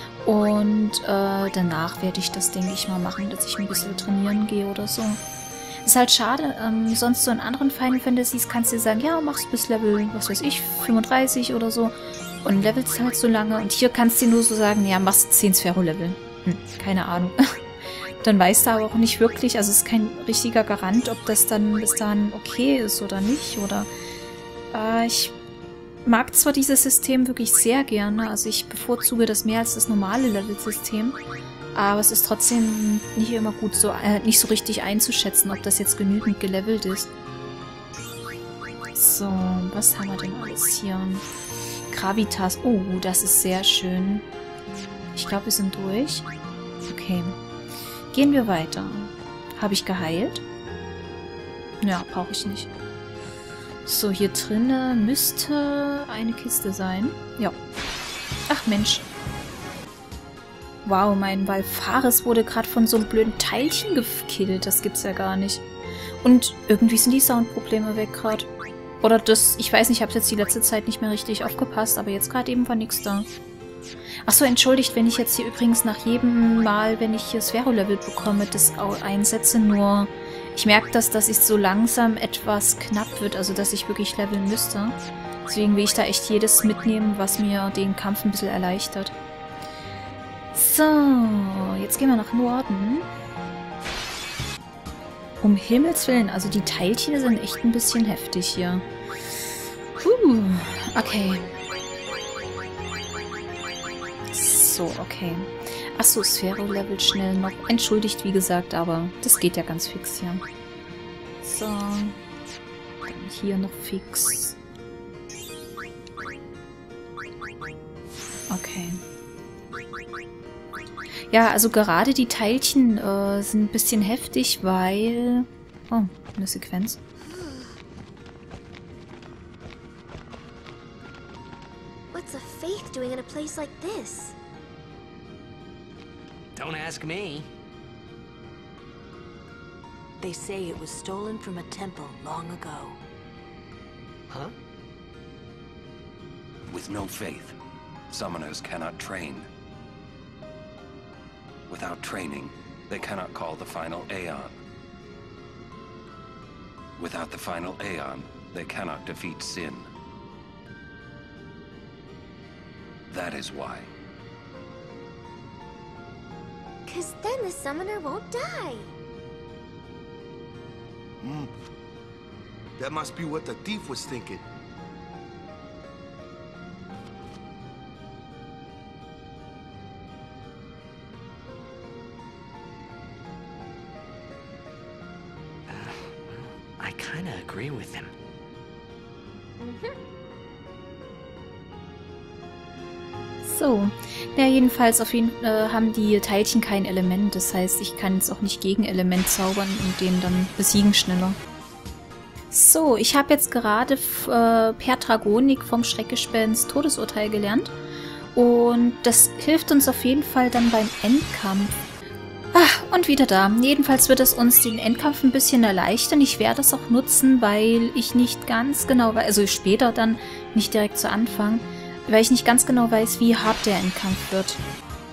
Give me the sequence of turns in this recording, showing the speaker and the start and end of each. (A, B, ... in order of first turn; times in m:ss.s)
0:00.2-0:05.2 A
0:05.8-0:17.6 A
0:18.2-0:23.9 A
0:24.7-0:25.4 A
0:26.0-0:31.2 A
0:31.7-0:37.1 A
0:38.9-0:41.2 A
0:41.9-0:44.2 A
0:45.1-0:46.3 A
0:46.8-0:47.4 A
0:48.1-0:50.4 A
0:51.8-0:52.7 A
0:53.8-0:57.6 A
0:58.5-0:59.1 A
1:00.8-1:05.6 A
1:06.2-1:08.5 A
1:09.0-1:13.3 A
1:14.2-1:29.2 A
1:30.5-1:33.1 A
1:35.4-1:38.9 A
1:40.0-1:41.5 A
1:44.3-1:50.4 A
1:51.4-1:52.2 A
1:53.0-1:54.6 A
1:58.5-1:59.0 A
2:01.3-2:07.0 A
2:07.3-2:07.7 B
2:12.1-2:14.4 B
2:16.6-2:17.4 C
2:20.2-2:23.0 D
2:26.7-2:27.6 E
2:28.1-2:29.5 E
2:31.7-2:34.6 E
2:37.0-2:39.9 E
2:43.1-2:43.9 E
2:46.8-2:48.9 B
2:51.2-2:51.5 F
2:52.8-2:54.4 F
3:05.7-3:08.1 C
3:09.6-3:10.0 B
3:13.4-3:21.4 A
3:22.5-3:27.7 A
3:28.3-3:31.8 A
3:32.5-3:44.6 A